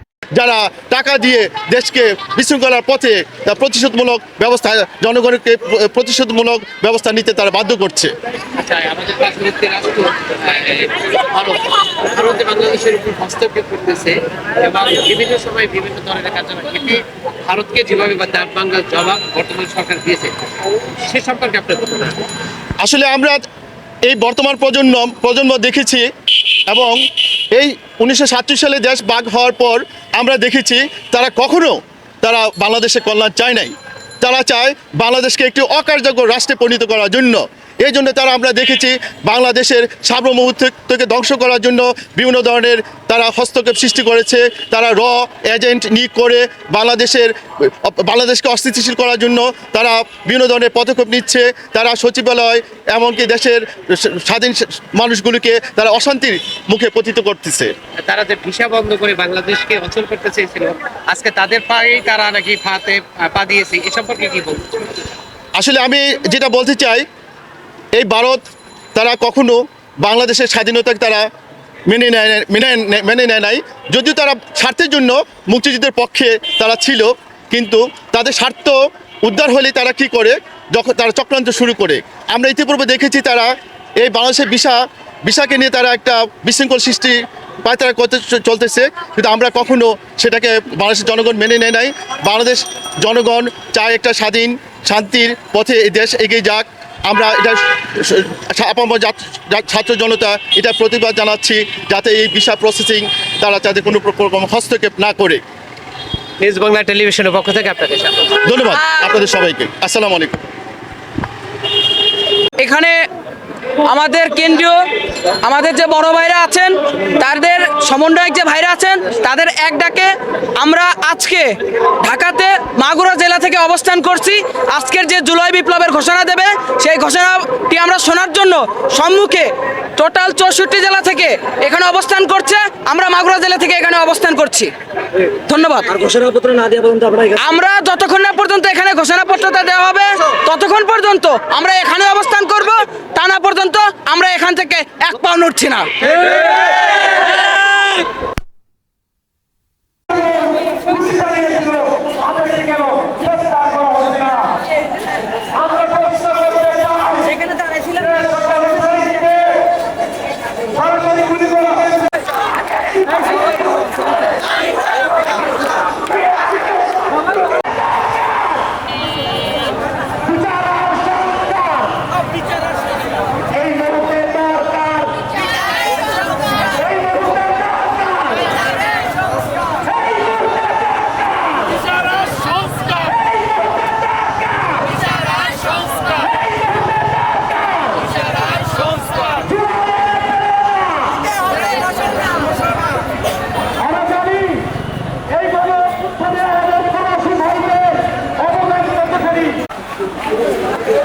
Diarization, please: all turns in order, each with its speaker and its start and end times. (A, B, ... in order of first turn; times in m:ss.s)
0:00.4-0:08.1 A
0:08.6-0:20.3 B
0:21.1-0:22.2 B
0:22.8-0:23.4 A
0:24.1-0:26.1 A
0:26.7-0:27.0 A
0:27.6-0:57.7 A
0:58.0-1:04.9 B
1:05.6-1:07.0 A
1:08.0-1:08.4 A
1:09.0-1:11.2 A
1:11.9-1:45.4 A
1:46.4-1:48.4 B
1:48.5-1:50.4 A
1:52.6-1:53.0 C
1:53.8-1:54.8 C
1:55.4-2:14.7 C
2:15.4-2:16.3 C
2:17.3-2:27.2 C
2:31.0-2:31.8 C
2:32.4-2:34.4 C
2:35.8-2:39.4 C
2:41.0-2:41.8 C
3:16.9-3:17.6 C